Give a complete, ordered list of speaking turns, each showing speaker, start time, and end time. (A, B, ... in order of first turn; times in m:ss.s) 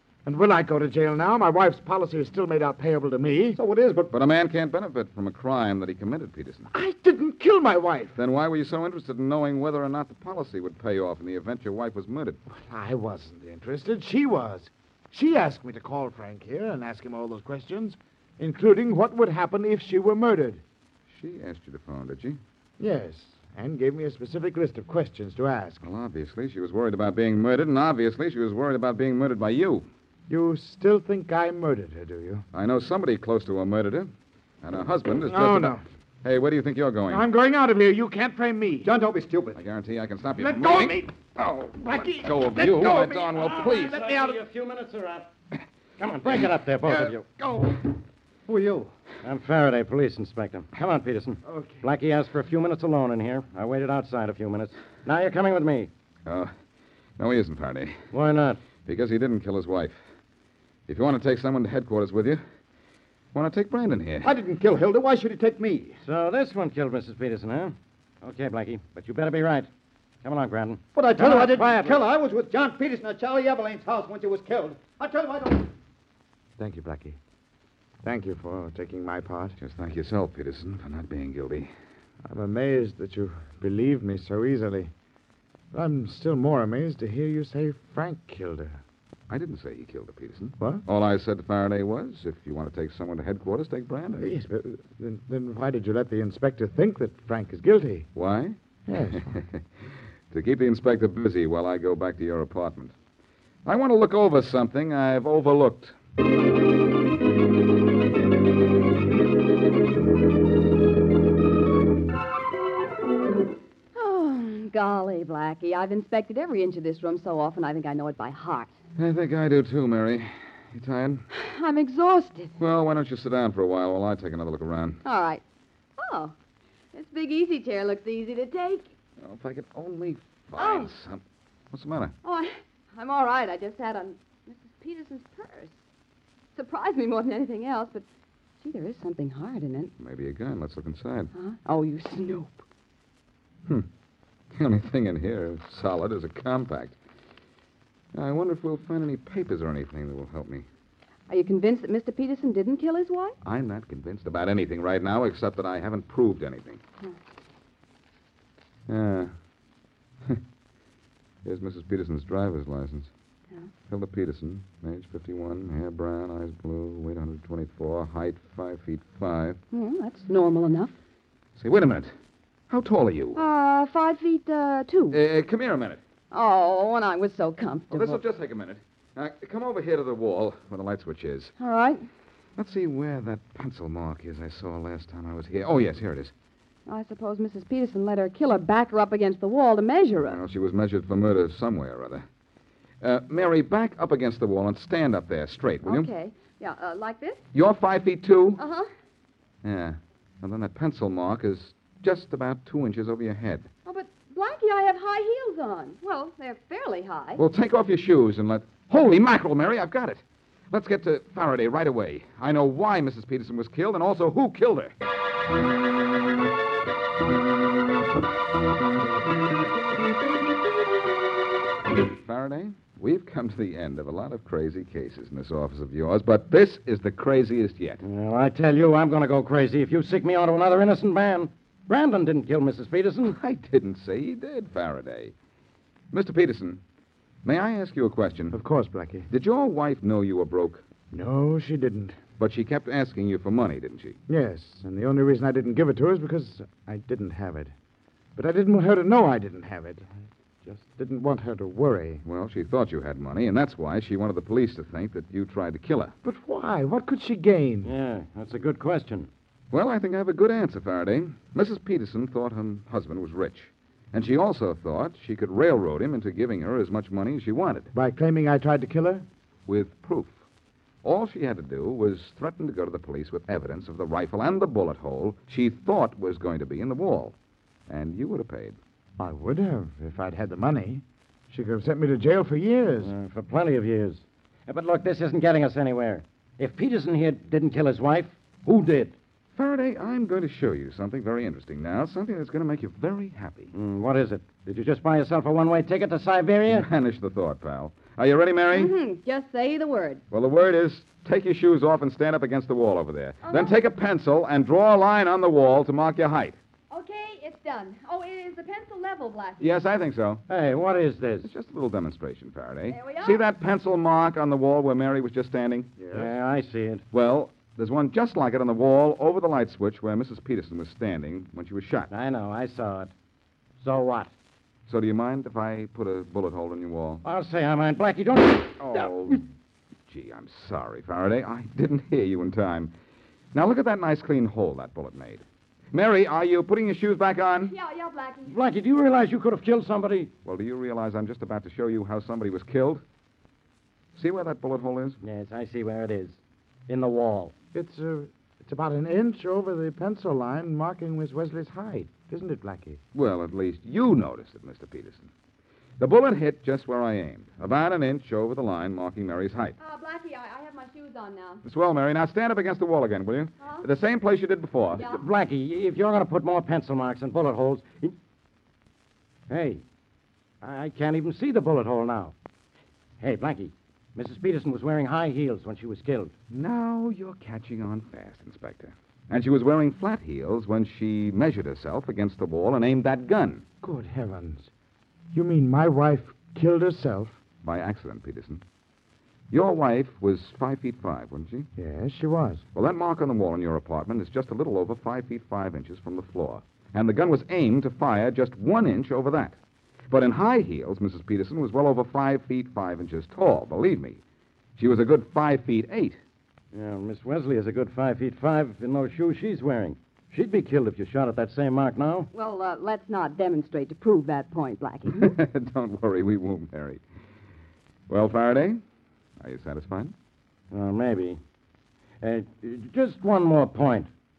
0:00.2-0:03.6 A
0:03.5-0:04.1 B
0:04.1-0:06.7 C
0:06.7-0:08.2 A
0:08.1-0:12.4 C
0:12.5-0:20.6 A
0:21.1-0:22.4 C
0:22.8-0:25.8 A
0:25.8-0:29.9 C
0:30.3-0:32.4 A
0:32.5-0:34.1 C
0:34.6-0:37.2 C
0:35.2-0:35.8 A
0:37.1-0:38.9 A
0:38.8-0:39.6 B
0:39.5-0:44.0 C
0:40.4-0:44.4 A
0:43.4-0:45.3 D
0:46.0-0:47.2 D
0:46.8-0:47.8 A
0:48.5-0:48.9 B
0:49.2-0:55.9 D
0:51.4-0:51.8 A
0:56.2-0:56.5 C
0:57.2-0:58.0 C
0:58.1-0:58.6 D
0:58.8-1:00.0 C
1:00.9-1:02.4 C
1:03.3-1:04.3 C
1:04.2-1:06.0 B
1:06.0-1:09.7 D
1:10.2-1:12.0 D
1:10.9-1:15.7 B
1:16.6-1:17.2 A
1:18.0-1:19.6 A
1:19.6-1:21.7 C
1:22.2-1:24.9 A
1:25.7-1:28.8 A
1:29.3-1:34.3 C
1:30.6-1:30.8 A
1:34.1-1:38.1 A
1:38.1-1:38.6 C
1:38.8-1:39.3 A
1:39.1-1:42.9 C
1:43.6-1:46.0 C
1:53.9-1:58.7 E
1:59.0-2:01.2 C
2:01.3-2:02.5 E
2:02.6-2:05.0 C
2:05.0-2:05.4 E
2:06.0-2:06.3 E
2:06.9-2:08.9 E
2:09.2-2:12.1 C
2:10.6-2:10.9 E
2:12.2-2:15.8 E
2:16.5-2:18.0 E
2:18.6-2:19.9 E
2:20.0-2:21.3 C
2:21.3-2:22.6 E
2:24.5-2:27.0 C
2:28.1-2:30.6 C
2:31.3-2:33.4 E
2:33.4-2:36.8 C
2:38.9-2:39.3 C
2:41.4-2:43.1 C
2:43.9-2:49.6 C
2:49.7-2:50.9 E
2:51.6-2:52.1 C
2:52.7-2:53.4 C
2:53.3-2:55.2 E
2:55.1-2:56.0 C
2:56.3-2:58.2 E
2:57.9-3:01.5 C
3:01.6-3:02.0 E
3:02.6-3:06.3 C
3:06.9-3:10.4 E
3:10.2-3:12.2 C
3:13.0-3:16.1 C
3:15.8-3:17.4 E
3:17.5-3:18.6 C
3:18.6-3:18.9 E
3:19.6-3:23.7 C
3:23.8-3:27.4 E
3:27.4-3:34.9 C
3:42.2-3:48.0 C
3:48.0-3:53.4 D
3:53.2-3:55.3 C
3:56.1-3:56.8 C
3:57.4-3:58.6 C
3:58.5-3:59.3 A
3:59.3-4:00.8 C
4:01.1-4:02.2 A
4:02.4-4:04.2 C
4:04.3-4:07.7 A
4:08.4-4:10.1 A
4:10.6-4:12.2 A
4:12.2-4:16.1 C
4:16.2-4:17.9 A
4:17.8-4:19.3 D
4:19.7-4:27.9 C
4:27.9-4:29.2 A
4:29.7-4:30.4 C
4:31.0-4:37.4 C
4:37.9-4:38.8 C
4:39.2-4:43.1 A
4:43.0-4:49.1 D
4:49.6-4:53.7 C
4:53.7-4:56.9 D
4:56.7-4:58.9 C
4:58.7-5:00.2 E
5:00.3-5:06.6 C
5:03.4-5:03.8 E
5:06.9-5:09.7 E
5:09.6-5:10.4 C
5:10.5-5:11.5 D
5:11.4-5:15.9 C
5:12.9-5:13.4 E
5:16.0-5:16.3 A
5:16.1-5:17.0 D
5:17.1-5:22.1 C
5:22.1-5:23.1 D
5:23.8-5:24.3 D
5:24.9-5:27.2 C
5:27.2-5:29.4 D
5:28.8-5:29.4 C
5:30.1-5:32.9 C
5:33.5-5:37.7 C
5:37.6-5:38.6 E
5:38.4-5:40.3 D
5:40.4-5:43.0 C
5:44.2-5:45.2 C
5:45.2-5:47.5 D
5:47.7-5:53.0 A
5:53.1-5:55.3 C
5:56.0-5:59.8 C
5:59.8-6:01.6 E
6:01.6-6:05.2 C
6:03.6-6:03.8 E
6:04.9-6:05.2 E
6:05.1-6:08.1 D
6:09.5-6:09.8 D
6:10.6-6:12.3 D
6:13.2-6:16.3 D
6:16.5-6:23.6 C
6:23.8-6:24.7 A
6:25.3-6:27.4 A
6:27.6-6:28.6 C
6:29.5-6:31.7 C
6:31.8-6:32.6 A
6:32.7-6:39.6 C
6:40.1-6:44.2 C
6:44.8-6:46.2 C
6:46.7-6:52.3 D
6:52.3-6:55.4 E
6:55.1-6:57.0 C
6:58.1-6:58.8 C
6:59.4-7:00.1 C
7:00.7-7:01.4 D
7:02.2-7:04.1 D